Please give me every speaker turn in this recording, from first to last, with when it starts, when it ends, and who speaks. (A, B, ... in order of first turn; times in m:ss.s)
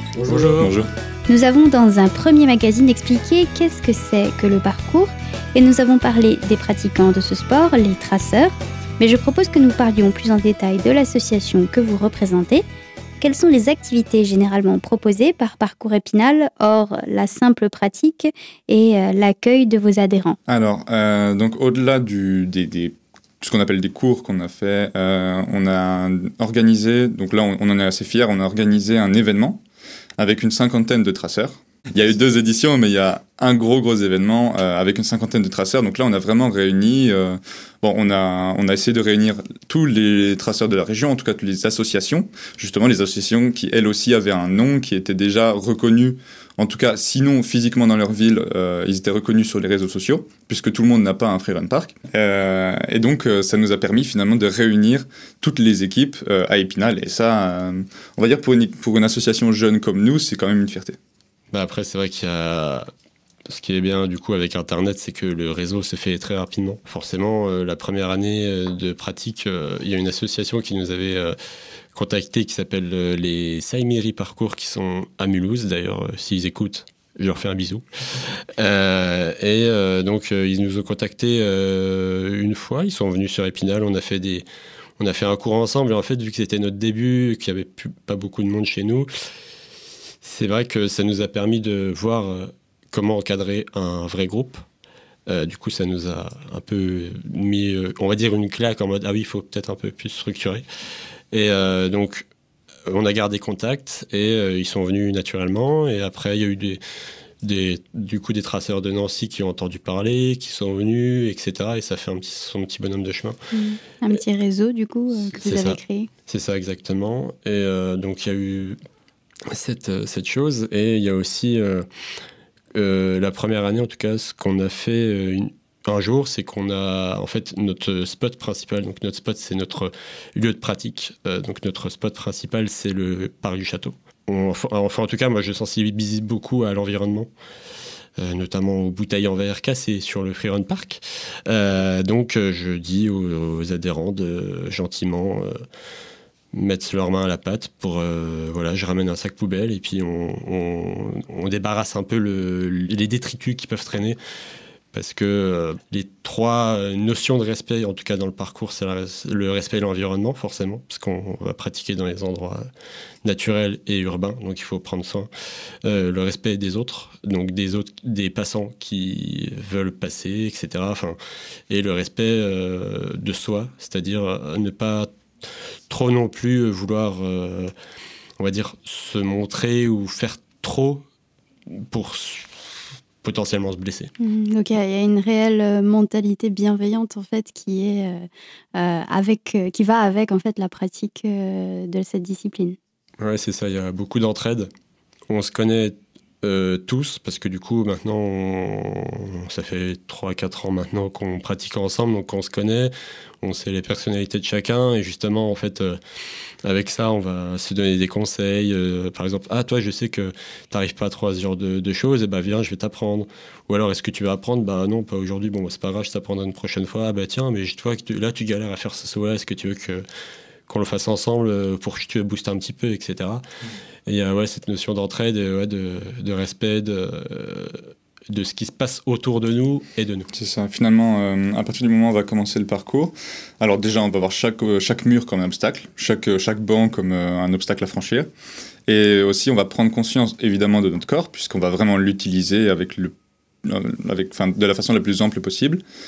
0:00.1-0:00.8 A
0:00.3-0:00.9 B
0:01.3-0:12.6 C
0:13.2-0:20.4 C
0:20.5-0:29.6 B
0:30.2-1:01.0 B
1:01.5-1:02.9 A
1:03.5-1:11.3 A
1:11.9-1:24.4 A
1:25.0-1:29.1 A
1:30.2-1:34.6 A
1:35.3-1:40.6 A
1:41.3-1:42.3 A
1:42.9-1:46.8 A
1:47.4-1:53.4 A
1:53.5-1:56.1 C
1:55.3-1:58.8 A
1:59.5-2:01.8 A
2:02.7-2:17.3 A
2:18.2-2:25.6 A
2:26.5-2:34.2 A
2:34.9-2:42.6 A
2:43.2-2:45.3 A
2:45.8-2:51.2 A
2:51.7-2:57.7 A
2:58.4-3:01.0 A
3:01.7-3:04.1 A
3:04.2-3:12.8 C
3:13.2-3:14.7 A
3:15.3-3:26.0 A
3:26.6-3:40.0 A
3:40.7-3:43.4 A
3:44.1-3:50.3 A
3:50.3-3:58.3 B
3:58.9-4:05.8 B